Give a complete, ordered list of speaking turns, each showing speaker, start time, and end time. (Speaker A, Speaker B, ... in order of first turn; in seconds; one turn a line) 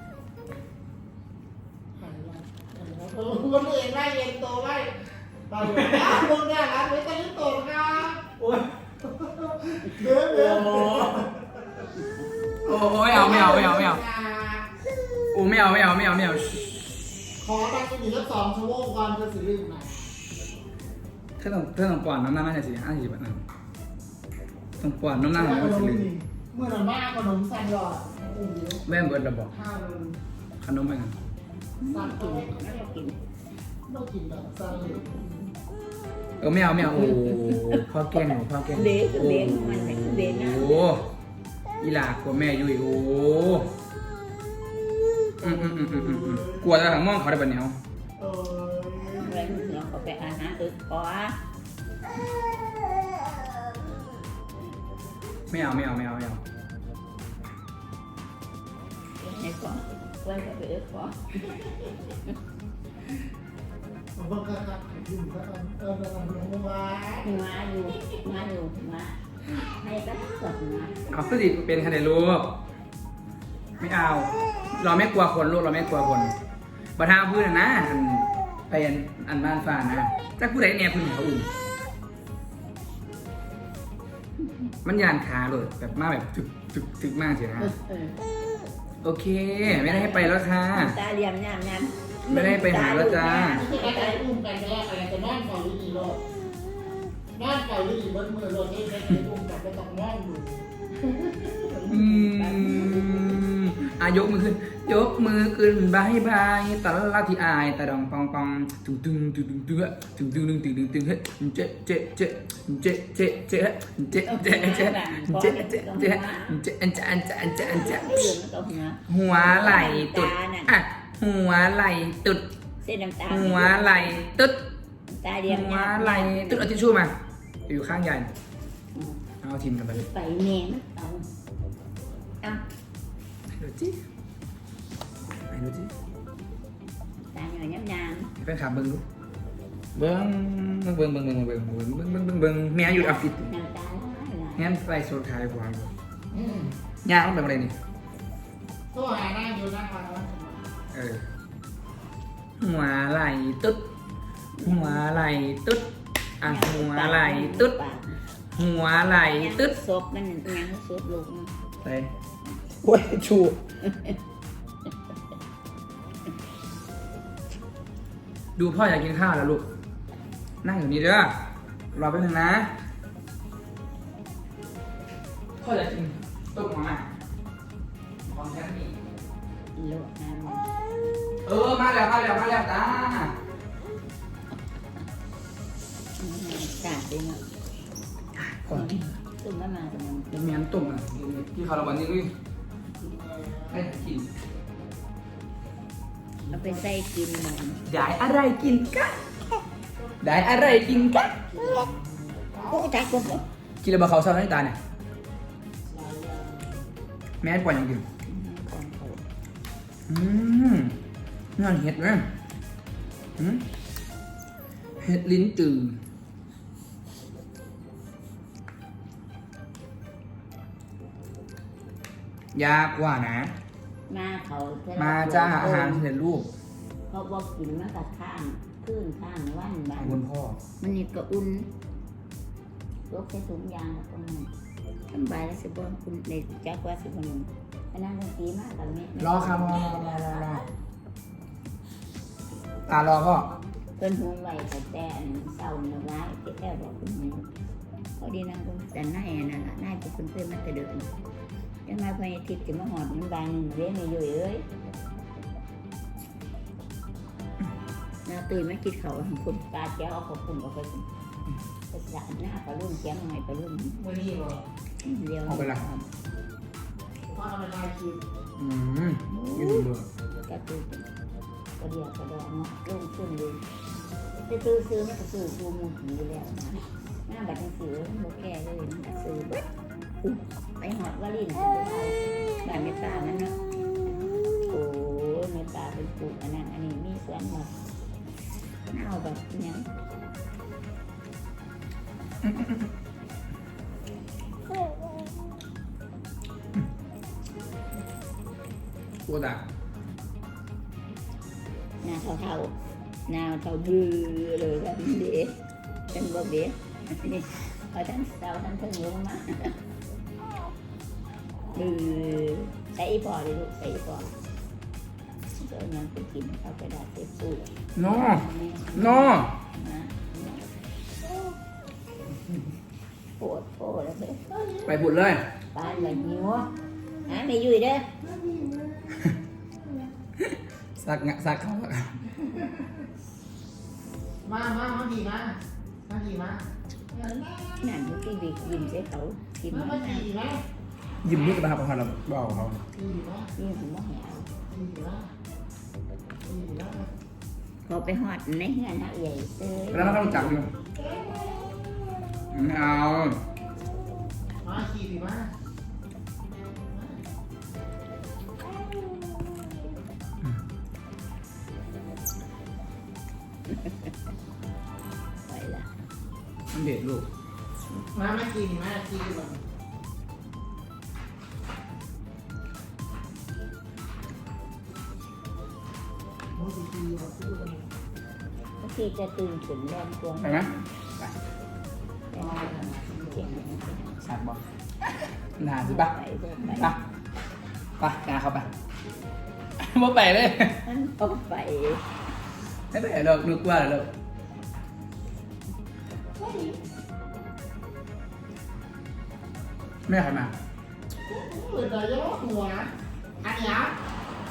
Speaker A: 2.0-11.8
Speaker B: 10.1-11.2
Speaker B: 12.6-14.0
Speaker A: 12.9-14.8
Speaker B: 15.3-16.8
Speaker A: 17.4-20.1
Speaker B: 21.4-23.4
Speaker B: 24.8-26.1
Speaker A: 25.3-28.8
Speaker B: 28.9-29.5
Speaker A: 29.5-30.2
Speaker B: 30.6-31.1
Speaker C: 31.8-33.2
Speaker A: 31.9-32.8
Speaker A: 33.9-35.3
Speaker B: 36.4-41.0
Speaker C: 36.8-37.8
Speaker C: 38.7-40.9
Speaker B: 41.8-43.7
Speaker A: 45.4-46.7
Speaker B: 45.4-47.8
Speaker A: 48.2-49.7
Speaker C: 49.1-51.4
Speaker B: 55.5-56.4
Speaker C: 59.2-61.5
Speaker A: 64.2-67.3
Speaker C: 67.2-71.0
Speaker B: 71.1-72.6
Speaker B: 73.8-76.3
Speaker B: 77.0-81.5
Speaker B: 84.8-87.7
Speaker C: 87.6-88.2
Speaker B: 89.0-91.0
Speaker C: 89.6-94.2
Speaker B: 92.3-93.6
Speaker A: 93.2-96.2
Speaker A: 97.3-100.7
Speaker C: 101.4-103.4
Speaker B: 101.9-118.4
Speaker C: 114.2-116.6
Speaker C: 117.6-120.7
Speaker B: 119.1-122.5
Speaker C: 122.8-124.1
Speaker B: 123.3-124.6
Speaker C: 125.1-126.7
Speaker B: 125.5-127.1
Speaker B: 127.7-128.3
Speaker C: 128.9-129.2
Speaker B: 129.4-130.1
Speaker C: 129.9-131.3
Speaker B: 133.5-134.0
Speaker B: 135.5-135.9
Speaker C: 137.3-138.3
Speaker B: 138.4-139.0
Speaker B: 139.9-143.5
Speaker C: 142.8-144.7
Speaker B: 144.6-145.9
Speaker A: 146.3-146.7
Speaker B: 147.0-147.7
Speaker A: 148.9-150.7
Speaker B: 150.9-151.2
Speaker B: 152.6-153.9
Speaker C: 154.5-155.0
Speaker B: 154.6-155.9
Speaker B: 156.4-157.8
Speaker C: 156.4-158.2
Speaker B: 158.5-159.8
Speaker C: 159.2-161.5
Speaker B: 161.8-162.1
Speaker B: 162.8-163.6
Speaker C: 163.8-164.2
Speaker B: 168.6-169.6
Speaker B: 170.6-171.3
Speaker B: 171.9-172.7
Speaker B: 175.6-177.1
Speaker B: 178.2-179.0
Speaker C: 179.8-180.7
Speaker B: 181.4-183.3
Speaker C: 186.2-187.4
Speaker B: 188.4-189.1
Speaker C: 188.7-190.5
Speaker B: 190.3-192.3
Speaker A: 193.0-193.9
Speaker B: 193.7-194.3
Speaker A: 196.4-196.9
Speaker C: 196.5-197.8
Speaker B: 197.9-199.2
Speaker A: 200.0-203.4
Speaker B: 200.2-201.3
Speaker C: 201.2-201.9
Speaker C: 202.7-203.4
Speaker B: 203.8-204.8
Speaker A: 205.8-206.9
Speaker B: 207.4-208.0
Speaker C: 208.2-209.2
Speaker B: 210.1-210.9
Speaker B: 211.6-212.3
Speaker B: 213.4-213.7
Speaker B: 215.0-216.0
Speaker B: 222.5-223.5
Speaker C: 224.1-226.0
Speaker B: 225.0-226.5
Speaker C: 227.1-230.2
Speaker B: 229.9-230.6
Speaker C: 230.8-231.7
Speaker C: 233.1-234.5
Speaker C: 235.1-240.5
Speaker B: 239.2-240.6
Speaker B: 242.9-243.5
Speaker C: 244.0-247.5
Speaker C: 248.2-251.1
Speaker C: 251.8-254.6
Speaker C: 258.2-261.1
Speaker C: 261.9-264.0
Speaker A: 263.9-264.6
Speaker C: 265.0-266.1
Speaker B: 265.4-265.8
Speaker A: 267.3-268.2
Speaker B: 268.6-270.1
Speaker C: 269.3-269.9
Speaker C: 270.4-271.1
Speaker C: 271.8-273.6
Speaker C: 274.4-279.7
Speaker C: 280.2-287.8
Speaker C: 288.9-289.9
Speaker B: 292.4-292.9
Speaker B: 299.2-299.6
Speaker C: 302.0-302.7
Speaker C: 303.3-305.6
Speaker C: 306.1-309.8
Speaker C: 311.7-314.3
Speaker C: 315.5-320.6
Speaker B: 317.9-319.5
Speaker C: 323.4-324.5
Speaker A: 324.5-325.0
Speaker B: 324.9-325.4
Speaker C: 325.7-326.7
Speaker A: 325.8-327.3
Speaker C: 327.2-328.1
Speaker A: 328.2-330.1
Speaker B: 330.4-332.5
Speaker A: 334.4-338.9
Speaker C: 337.8-340.3
Speaker A: 339.7-340.6
Speaker B: 341.2-342.8
Speaker A: 342.9-343.5
Speaker C: 343.6-344.5
Speaker A: 344.7-345.3
Speaker A: 346.4-347.1
Speaker C: 347.8-350.6
Speaker B: 349.9-350.7
Speaker A: 350.9-351.9
Speaker B: 352.5-353.4
Speaker A: 354.6-355.5
Speaker A: 356.9-357.2
Speaker C: 363.7-364.1
Speaker C: 365.5-365.9
Speaker B: 366.7-367.3
Speaker A: 368.1-369.6
Speaker A: 376.5-377.9
Speaker C: 378.8-380.9
Speaker B: 380.4-381.4
Speaker C: 382.3-384.2
Speaker A: 382.3-383.6
Speaker B: 384.2-384.6
Speaker B: 385.6-386.1
Speaker C: 385.8-386.9
Speaker B: 386.7-387.0
Speaker B: 388.0-388.7
Speaker B: 389.8-390.8
Speaker C: 390.8-392.0
Speaker B: 392.9-394.1
Speaker A: 396.4-396.7
Speaker B: 400.1-400.5
Speaker A: 401.3-403.9